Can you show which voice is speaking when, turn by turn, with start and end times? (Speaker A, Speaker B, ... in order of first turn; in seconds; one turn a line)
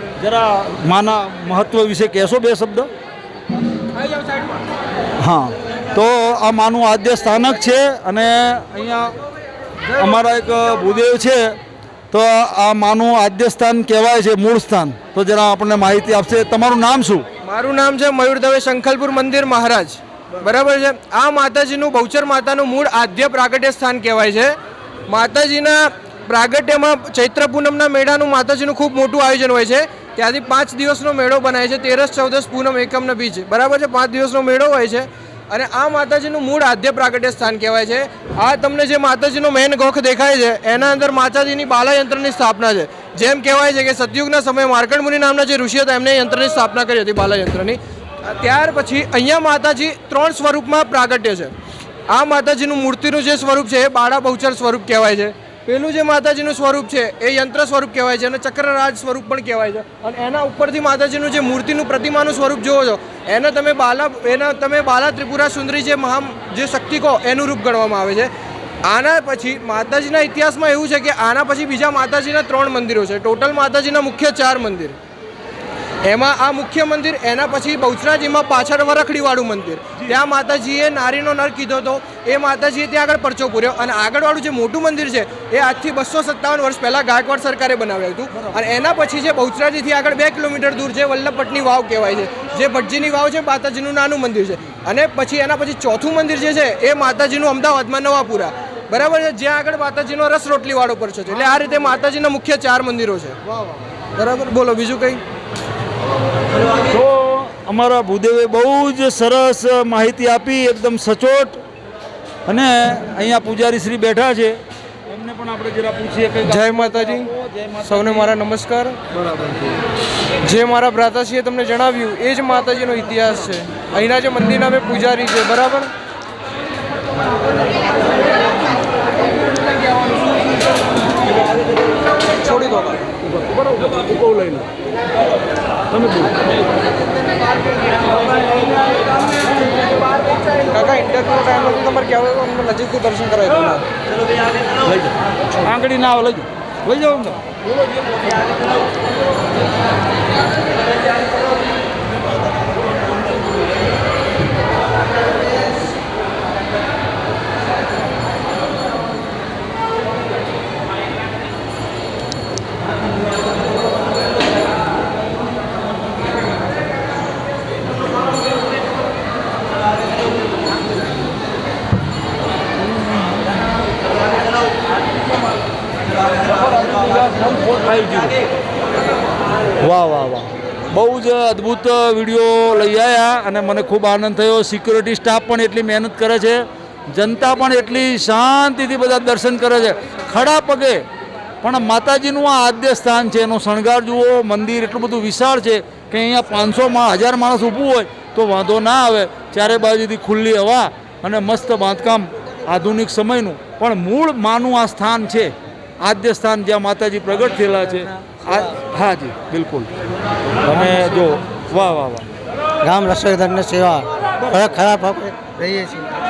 Speaker A: 0.2-2.9
Speaker A: 5.2-9.2
Speaker A: 9.9-11.6
Speaker A: 12.1-17.2
Speaker B: 17.4-24.6
Speaker B: 25.1-51.5
Speaker B: 52.1-68.3
Speaker B: 68.8-75.0
Speaker B: 76.0-103.4
Speaker B: 104.1-105.2
Speaker A: 106.8-111.6
Speaker A: 112.5-118.3
Speaker B: 116.5-119.0
Speaker B: 120.4-125.9
Speaker B: 132.2-133.2
Speaker A: 133.4-134.7
Speaker A: 135.9-136.6
Speaker B: 140.3-143.8
Speaker A: 144.8-147.4
Speaker A: 176.4-178.4
Speaker A: 179.8-191.1
Speaker A: 191.6-209.9
Speaker A: 210.6-212.3
Speaker C: 212.8-216.1
Speaker A: 214.4-214.7